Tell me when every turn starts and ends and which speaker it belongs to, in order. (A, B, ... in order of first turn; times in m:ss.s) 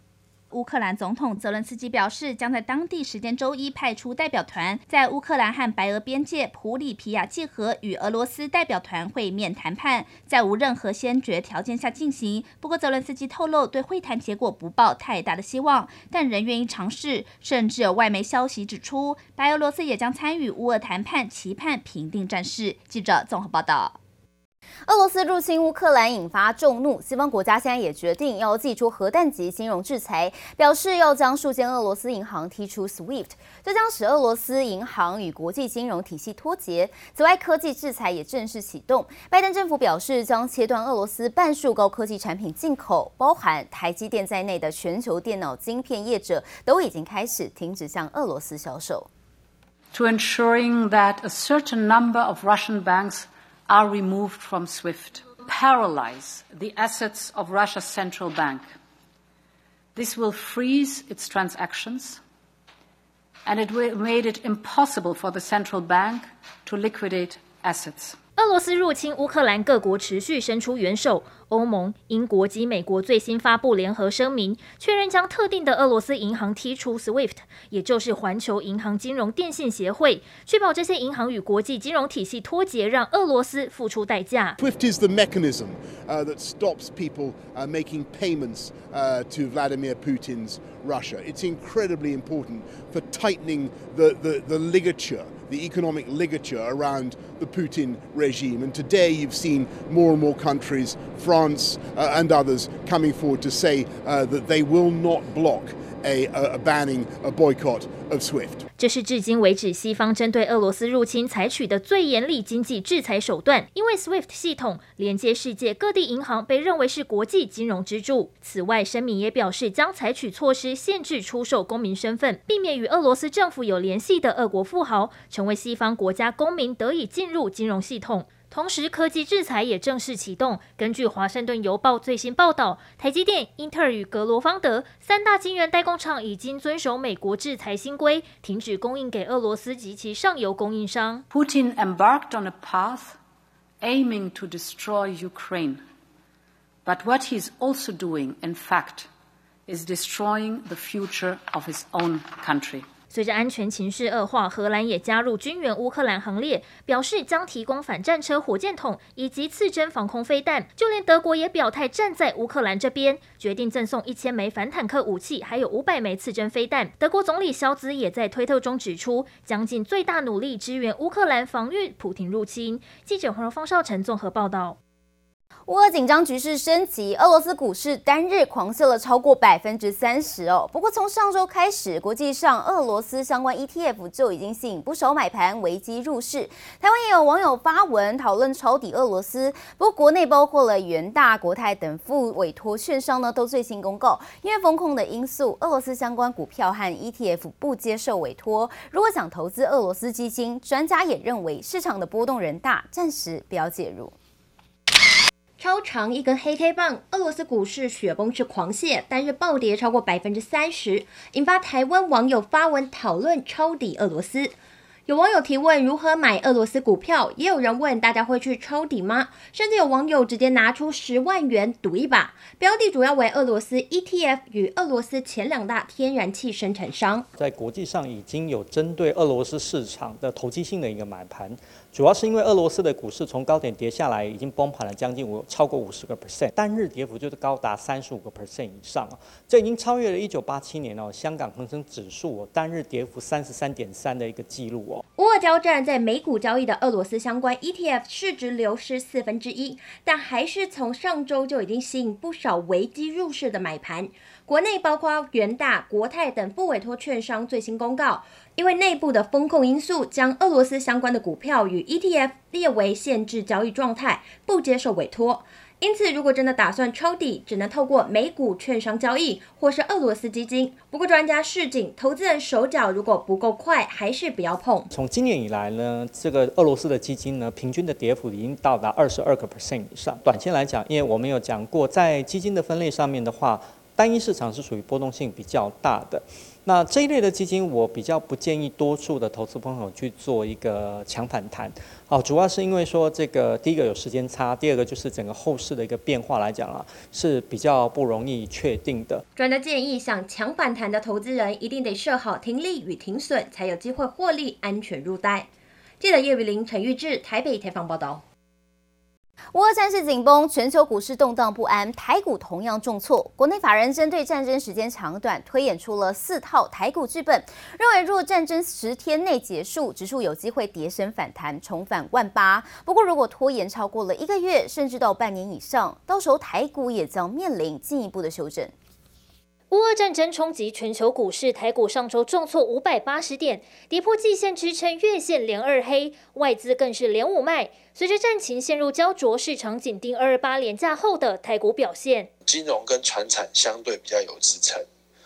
0:00.5-0:24.0 A
0:24.9-0:49.1 B
0:49.9-0:58.7 C
0:59.9-1:02.2 C
1:03.4-1:08.2 C
1:08.4-1:24.6 D
1:24.6-1:48.6 E
1:48.8-2:21.2 D
2:21.3-2:23.1 C
2:23.8-2:25.8 C
2:26.8-2:29.1 C
2:29.7-2:32.8 C
2:33.1-2:54.8 D
2:55.7-3:24.1 B
3:25.6-3:34.5 F
3:35.1-3:47.2 F
3:47.4-4:05.0 G
4:05.2-4:34.9 F
4:34.9-4:59.2 G
4:59.4-5:05.5 F
5:06.0-5:08.2 F
5:09.5-5:28.7 B
5:29.7-5:42.3 D
5:42.4-5:44.8 H